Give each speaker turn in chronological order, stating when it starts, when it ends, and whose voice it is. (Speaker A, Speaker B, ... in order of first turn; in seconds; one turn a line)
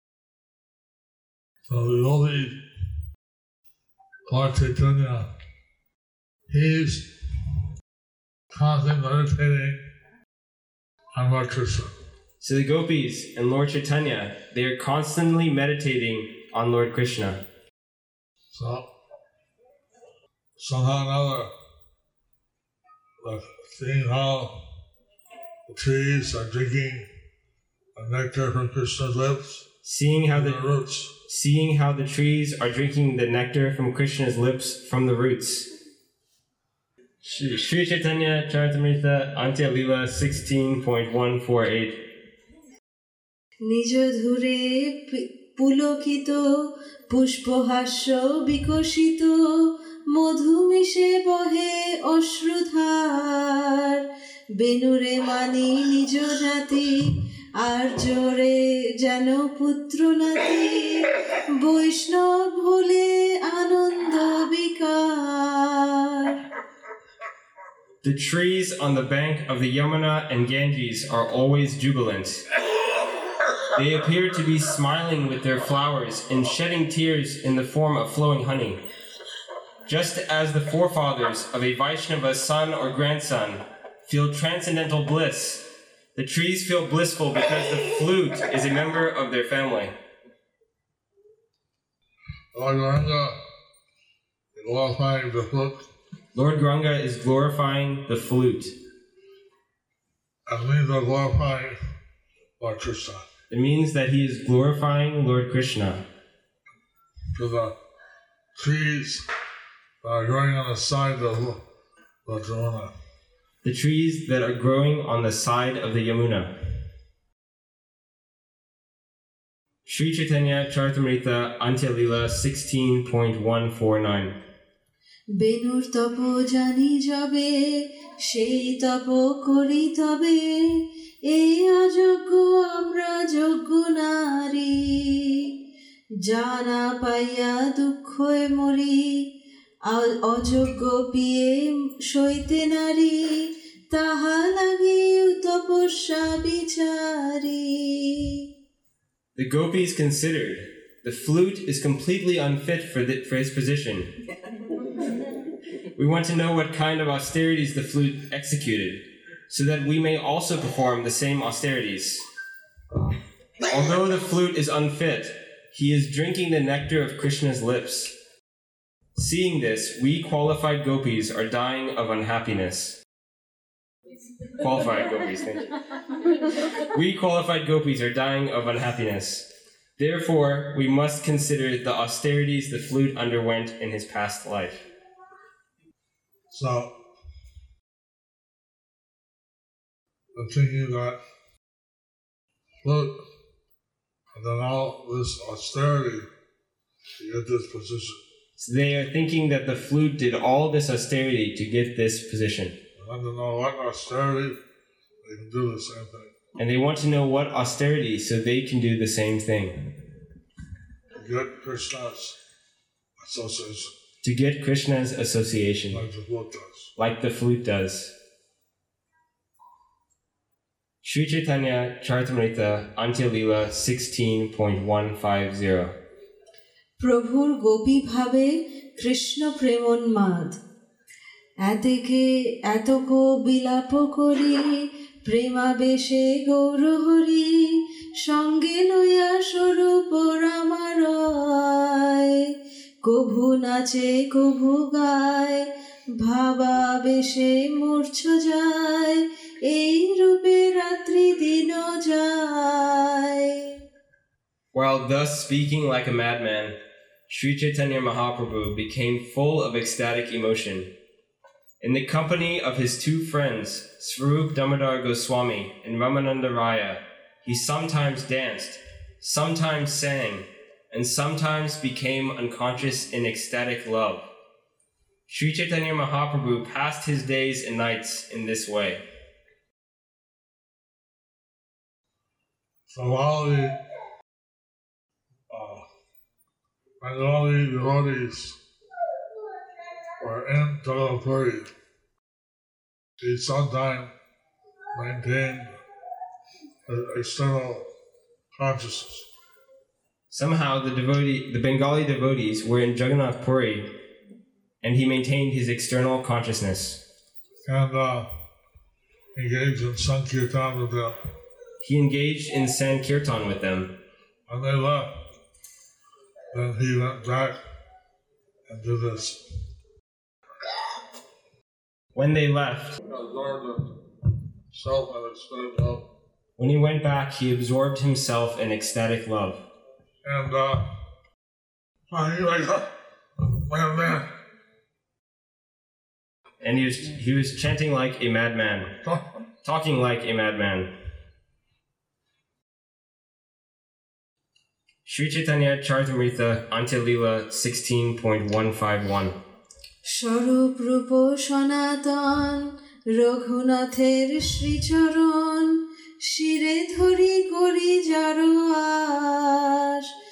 Speaker A: 1.7-2.6
Speaker A: 4.3-5.3
Speaker A: 6.5-7.2
Speaker A: 8.5-9.8
Speaker A: 11.2-11.9
Speaker B: 12.4-17.4
Speaker A: 18.5-18.9
Speaker A: 20.6-21.5
Speaker A: 23.2-24.6
Speaker A: 25.7-27.1
Speaker A: 27.9-29.7
Speaker B: 29.8-30.6
Speaker A: 30.3-31.1
Speaker B: 31.3-35.7
Speaker B: 37.2-42.2
Speaker C: 43.6-54.0
Speaker C: 54.6-66.3
Speaker B: 68.0-72.5
Speaker B: 73.8-78.8
Speaker B: 79.9-90.0
Speaker A: 92.5-93.4
Speaker A: 94.5-95.9
Speaker B: 96.3-98.7
Speaker A: 100.5-101.8
Speaker A: 102.6-103.3
Speaker B: 103.5-106.1
Speaker A: 107.3-107.8
Speaker A: 108.5-109.2
Speaker A: 110.0-111.6
Speaker A: 112.2-112.9
Speaker B: 113.6-116.6
Speaker B: 119.9-124.4
Speaker C: 125.4-135.5
Speaker C: 136.2-139.3
Speaker C: 139.9-148.4
Speaker B: 149.4-154.2
Speaker B: 156.0-162.2
Speaker B: 163.7-168.2
Speaker B: 169.2-173.0
Speaker B: 174.6-175.7
Speaker B: 176.9-179.5
Speaker B: 180.0-184.9
Speaker A: 186.5-186.9
Speaker A: 190.3-191.2
Speaker A: 192.8-193.2
Speaker A: 194.3-196.3
Speaker A: 197.2-198.2
Speaker B: 198.6-202.8
Speaker A: 203.0-204.6
Speaker A: 205.2-206.3
Speaker B: 206.6-209.8
Speaker A: 211.2-212.4
Speaker A: 213.2-213.9
Speaker B: 214.2-216.0
Speaker A: 215.9-216.9
Speaker B: 217.0-218.1
Speaker B: 221.0-226.0
Speaker C: 227.0-230.6
Speaker C: 231.6-242.4
Speaker C: 243.0-245.7
Speaker C: 246.2-253.7
Speaker B: 254.7-256.8
Speaker B: 257.3-260.9
Speaker B: 261.8-274.3
Speaker B: 275.3-279.0
Speaker A: 282.9-283.8
Speaker A: 285.5-285.9
Speaker A: 287.0-288.6
Speaker A: 290.2-291.7
Speaker A: 293.2-294.1
Speaker A: 294.9-295.8
Speaker A: 296.9-297.9
Speaker A: 298.5-299.3
Speaker B: 300.3-303.9
Speaker B: 304.8-307.0
Speaker A: 307.7-308.3
Speaker A: 309.4-311.2
Speaker B: 311.8-314.0
Speaker A: 314.5-315.2
Speaker A: 316.5-317.6
Speaker A: 318.7-319.4
Speaker B: 322.1-323.0
Speaker A: 323.0-324.0
Speaker A: 324.7-326.1
Speaker B: 326.6-329.6
Speaker A: 330.2-330.9
Speaker A: 332.1-334.3
Speaker B: 336.6-338.9
Speaker B: 339.6-340.9
Speaker B: 345.1-349.4
Speaker C: 350.0-360.1